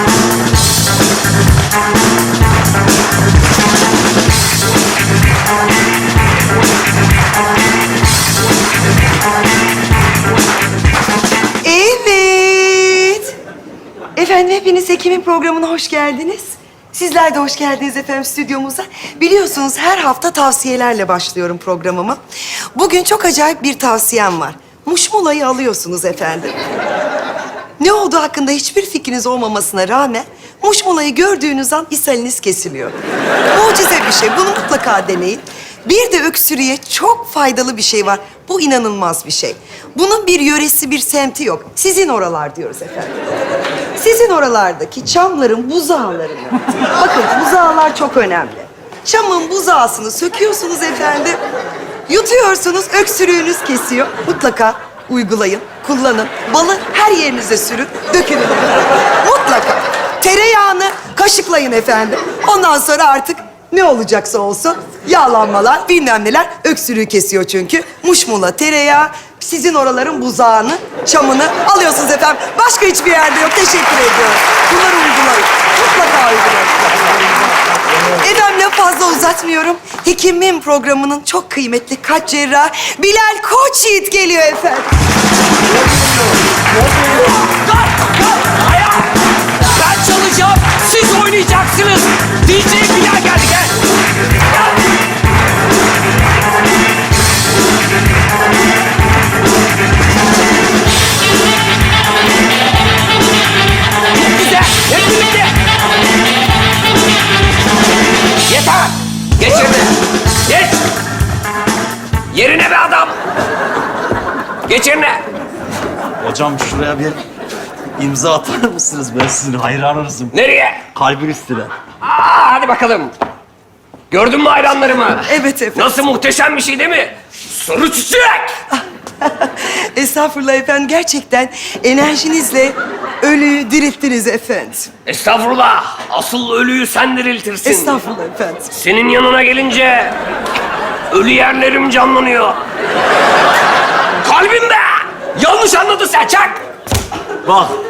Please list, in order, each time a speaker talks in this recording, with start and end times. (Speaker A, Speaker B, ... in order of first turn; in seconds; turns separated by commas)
Speaker A: 11.6-13.3, Speaker A: 14.2-22.2, Speaker A: 22.8-26.6, Speaker A: 27.8-33.0, Speaker A: 33.5-43.3, Speaker A: 44.0-51.4, Speaker A: 52.1-77.3, Speaker A: 78.1-84.9, Speaker B: 87.1-89.1, Speaker B: 89.6-93.8, Speaker B: 94.5-94.8, Speaker B: 104.1-105.5, Speaker B: 108.5-109.9, Speaker B: 110.5-110.8, Speaker B: 112.3-113.2, Speaker B: 114.7-115.2, Speaker C: 116.2-117.2, Speaker C: 118.0-120.3, Speaker B: 120.3-120.8, Speaker C: 121.0-121.7, Speaker B: 122.0-123.1, Speaker B: 124.1-128.5, Speaker A: 125.3-126.0, Speaker A: 128.7-134.9, Speaker B: 135.1-138.0, Speaker A: 137.6-138.7, Speaker B: 138.7-140.2, Speaker B: 141.1-142.6, Speaker B: 144.2-146.6, Speaker C: 147.4-147.7